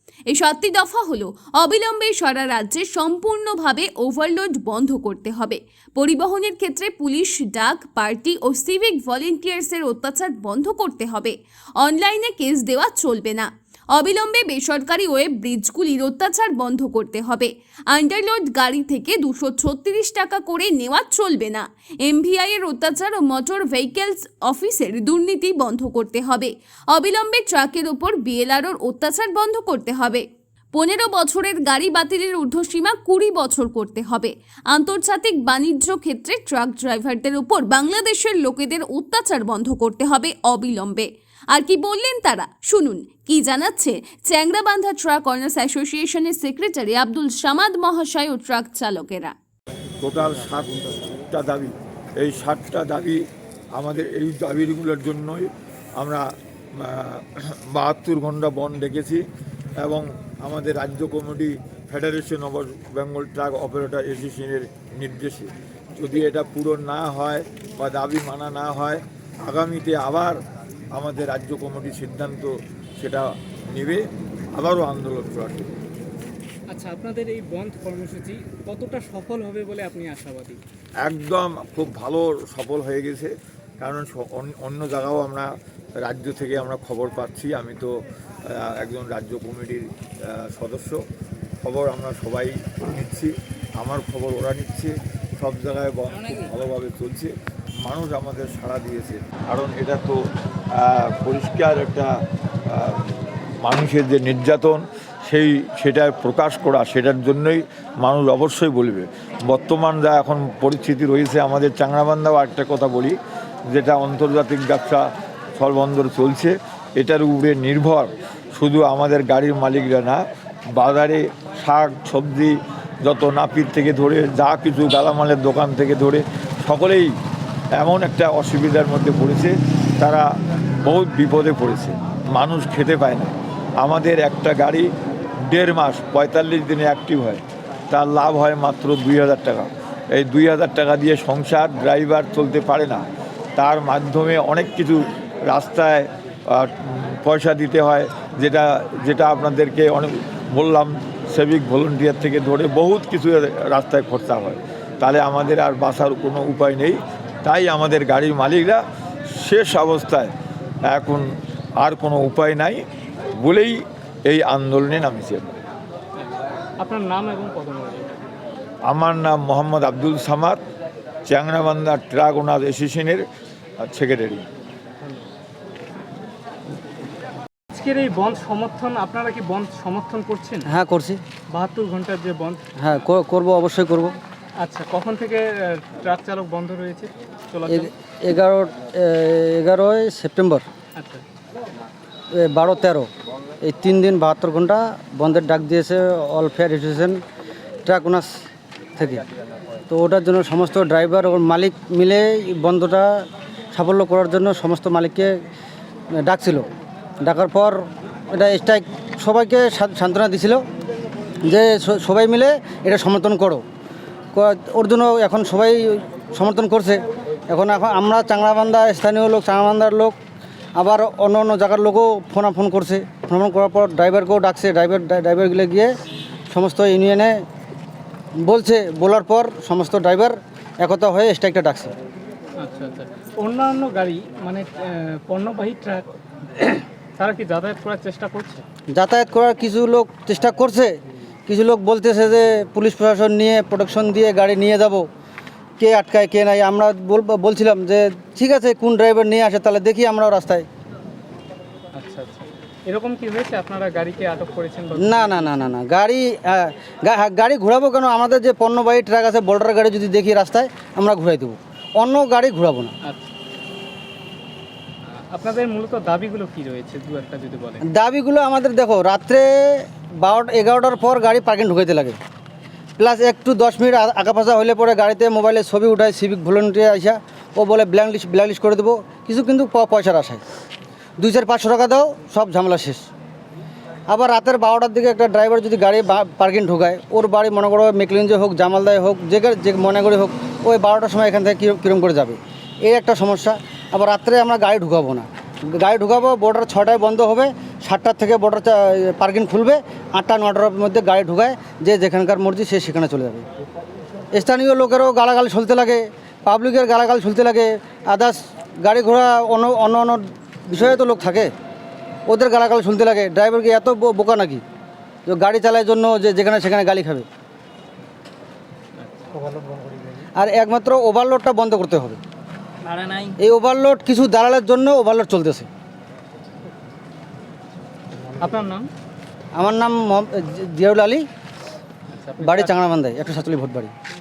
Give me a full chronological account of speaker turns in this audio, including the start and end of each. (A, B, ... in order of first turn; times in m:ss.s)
0:00.3-0:30.2 A
0:30.7-0:49.3 A
0:50.0-0:53.2 B
0:53.8-0:56.2 B
0:56.8-0:59.2 B
0:59.8-1:10.4 B
1:10.9-1:14.0 B
1:14.6-1:15.7 B
1:16.7-1:20.6 C
1:21.0-1:25.5 B
1:26.0-1:27.9 B
1:28.4-1:31.0 B
1:31.6-1:37.3 B
1:37.8-1:40.2 B
1:40.7-1:42.1 B
1:42.7-1:53.2 B
1:53.7-2:00.2 B
2:00.8-2:07.1 B
2:07.8-2:10.2 B
2:10.8-2:14.9 B
2:15.5-2:23.0 B
2:23.6-2:38.8 B
2:39.4-2:40.3 B
2:40.9-2:41.2 B
2:41.8-2:42.8 B
2:43.4-2:45.5 B
2:46.2-2:48.1 C
2:48.9-2:50.6 B
2:51.3-2:53.2 B
2:53.8-2:54.4 B
2:55.0-2:55.3 C
2:57.7-3:00.7 C
3:00.7-3:01.2 D
3:01.5-3:02.6 C
3:02.8-3:04.1 D
3:04.6-3:07.9 C
3:07.7-3:10.6 D
3:11.0-3:11.2 C
3:12.3-3:13.1 D
3:13.6-3:17.2 D
3:17.8-3:18.3 D
3:19.0-3:19.2 D
3:19.9-3:25.3 D
3:26.2-3:26.6 D
3:27.2-3:30.6 D
3:31.4-3:33.6 D
3:34.3-3:40.1 D
3:40.8-3:45.9 D
3:46.5-3:47.4 D
3:48.4-3:51.9 D
3:52.6-3:58.6 C
3:58.9-4:01.0 D
4:01.5-4:05.1 D
4:05.8-4:10.6 D
4:11.9-4:15.5 C
4:15.0-4:22.9 D
4:25.0-4:27.8 C
4:27.9-4:32.2 D
4:33.0-4:40.4 D
4:41.2-4:43.0 D
4:44.1-5:03.4 D
5:04.3-5:11.5 D
5:12.3-5:14.6 D
5:15.3-5:17.3 D
5:19.0-5:20.0 C
5:20.3-5:22.2 D
5:22.8-5:23.4 C
5:23.4-5:25.7 D
5:28.4-5:28.9 C
5:29.5-5:31.2 D
5:32.1-5:32.8 C
5:32.4-5:33.9 D